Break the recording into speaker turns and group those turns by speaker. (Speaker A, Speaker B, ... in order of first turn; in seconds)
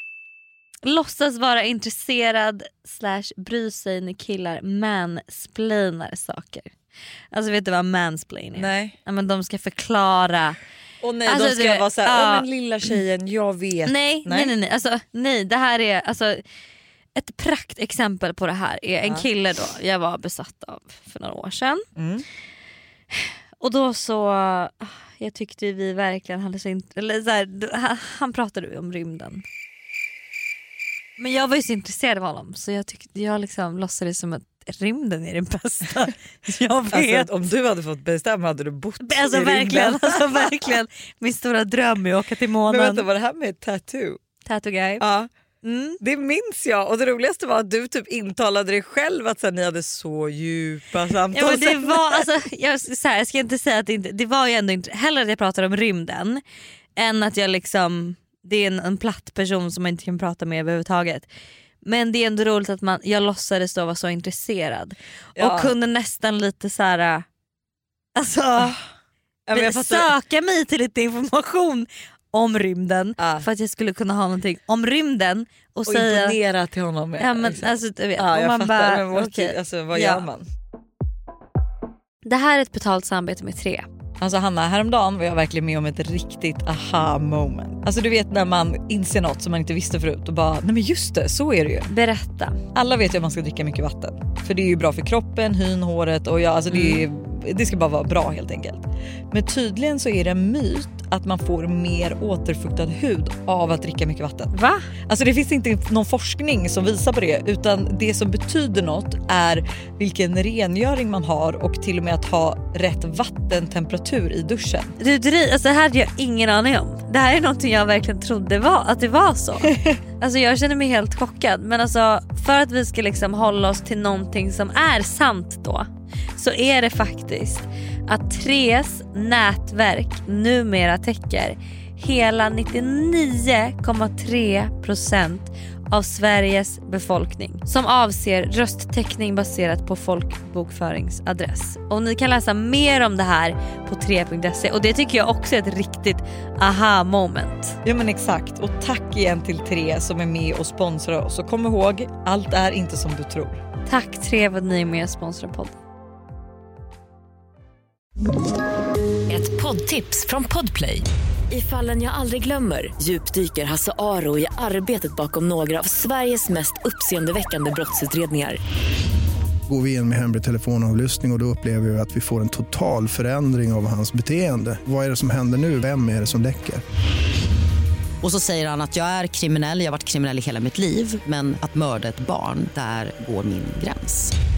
Speaker A: 0.8-6.7, 7.3-10.6, 11.2-12.5, 13.8-16.4, 17.1-21.9, 23.1-29.4, 31.2-37.3, 39.0-43.0, 44.4-45.0, 45.6-46.0, 51.3-56.4, 57.0-61.3, 61.8-67.2, 68.2-68.8, 69.5-76.4, 77.2-80.2, 82.2-83.8, 91.9-92.6, 96.7-97.0, 104.5-104.9, 115.0-147.8, 153.9-155.8
Speaker B: 8.5-8.9, 11.0-14.5, 21.9-22.2, 36.9-40.7, 42.7-44.2, 45.0-45.3, 46.0-52.3, 65.3-65.7, 69.5-70.1, 73.2-73.5, 75.9-80.5, 84.2-91.9, 92.7-104.5, 105.0-114.9, 147.8-153.6
Speaker C: 159.3-168.6
Speaker D: 169.7-176.8
Speaker E: 178.2-184.3